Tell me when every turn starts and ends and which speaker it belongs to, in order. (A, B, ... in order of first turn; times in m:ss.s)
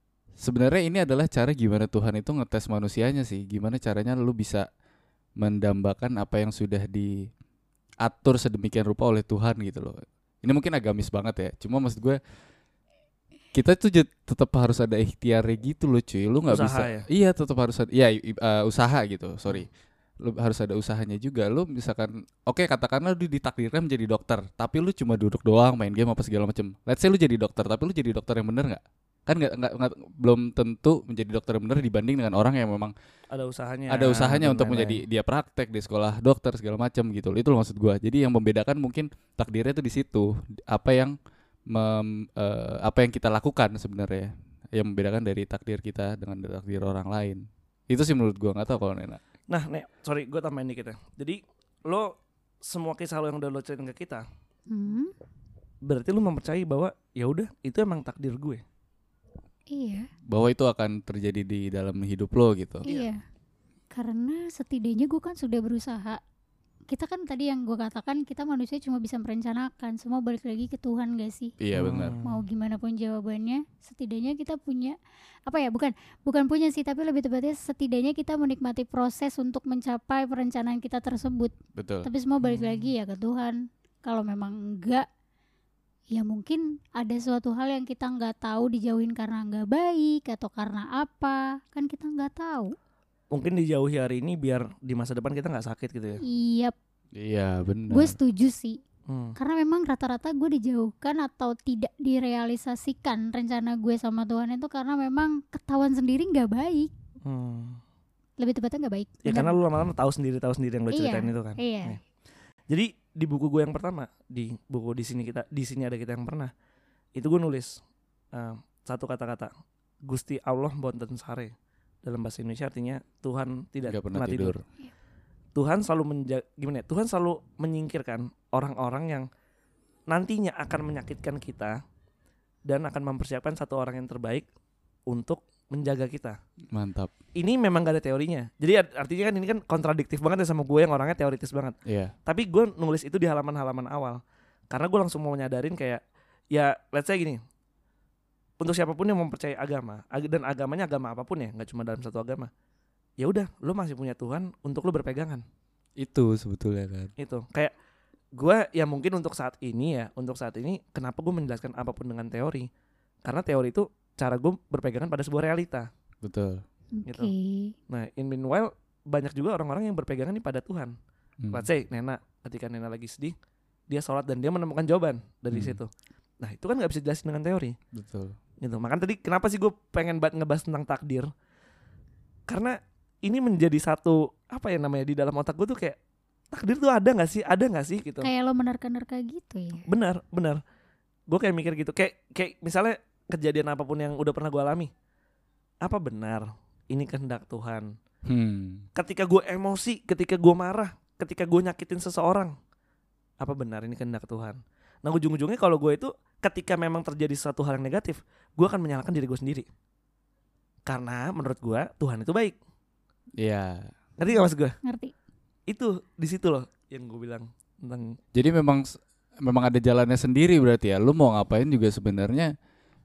0:00.4-0:04.7 A
0:05.4-0:07.2 A
0:08.0-0:12.2 A
0:13.5-0:19.7 A
0:16.5-0:17.1 B
0:20.2-0:32.9 A
0:33.3-0:35.0 B
0:33.9-0:41.2 A
0:41.7-0:49.2 A
0:49.5-0:52.1 B
0:52.6-0:54.2 B
0:54.7-0:55.1 C
0:55.9-0:58.6 B
0:59.7-1:00.1 C
1:00.3-1:02.9 A
1:02.8-1:03.2 C
1:03.9-1:06.2 C
1:06.9-1:11.5 C
1:11.6-1:12.2 A
1:11.7-1:12.4 B
1:12.2-1:25.0 C
1:21.8-1:22.1 A
1:22.4-1:22.9 B
1:26.1-1:32.7 C
1:33.3-1:36.2 B
1:36.2-1:36.8 C
1:37.2-1:38.2 A
1:37.9-1:38.8 C
1:39.1-1:39.4 B
1:39.4-1:46.9 C
1:47.2-1:47.8 B
1:48.4-1:49.6 C
1:49.2-1:52.0 B
1:50.9-1:52.0 C
1:52.7-1:56.5 B
1:57.2-1:57.8 B
1:58.3-1:59.5 B
2:00.1-2:01.5 B
2:02.0-2:04.6 B
2:03.9-2:04.6 A
2:05.6-2:09.3 B
2:10.1-2:11.8 B
2:12.7-2:14.5 B
2:15.1-2:16.4 B
2:16.7-2:17.1 A
2:17.4-2:24.2 B
2:21.9-2:22.1 A
2:24.7-2:26.0 B
2:26.5-2:27.4 B
2:28.6-2:32.5 B
2:33.2-2:35.4 B
2:36.0-2:37.1 A
2:37.2-2:37.7 B
2:38.4-2:42.7 B
2:43.2-2:45.9 B
2:46.2-2:46.6 A
2:47.0-2:47.7 C
2:47.1-2:47.3 B
2:47.9-2:51.0 B
2:51.4-2:51.7 A
2:51.5-2:53.4 B
2:53.9-2:55.9 B
2:55.5-2:55.8 A
2:56.4-2:57.8 B
2:57.9-2:58.4 A
2:58.6-3:01.3 B
3:02.5-3:06.0 B
3:06.5-3:08.3 B
3:08.2-3:09.8 C
3:09.9-3:10.6 B
3:11.3-3:14.9 B
3:15.8-3:17.9 B
3:18.3-3:18.9 A
3:19.0-3:22.5 B
3:23.4-3:29.7 B
3:30.9-3:32.6 B
3:33.4-3:33.9 A
3:34.2-3:34.8 B
3:34.8-3:35.1 C
3:35.7-3:38.2 B
3:38.4-3:42.5 A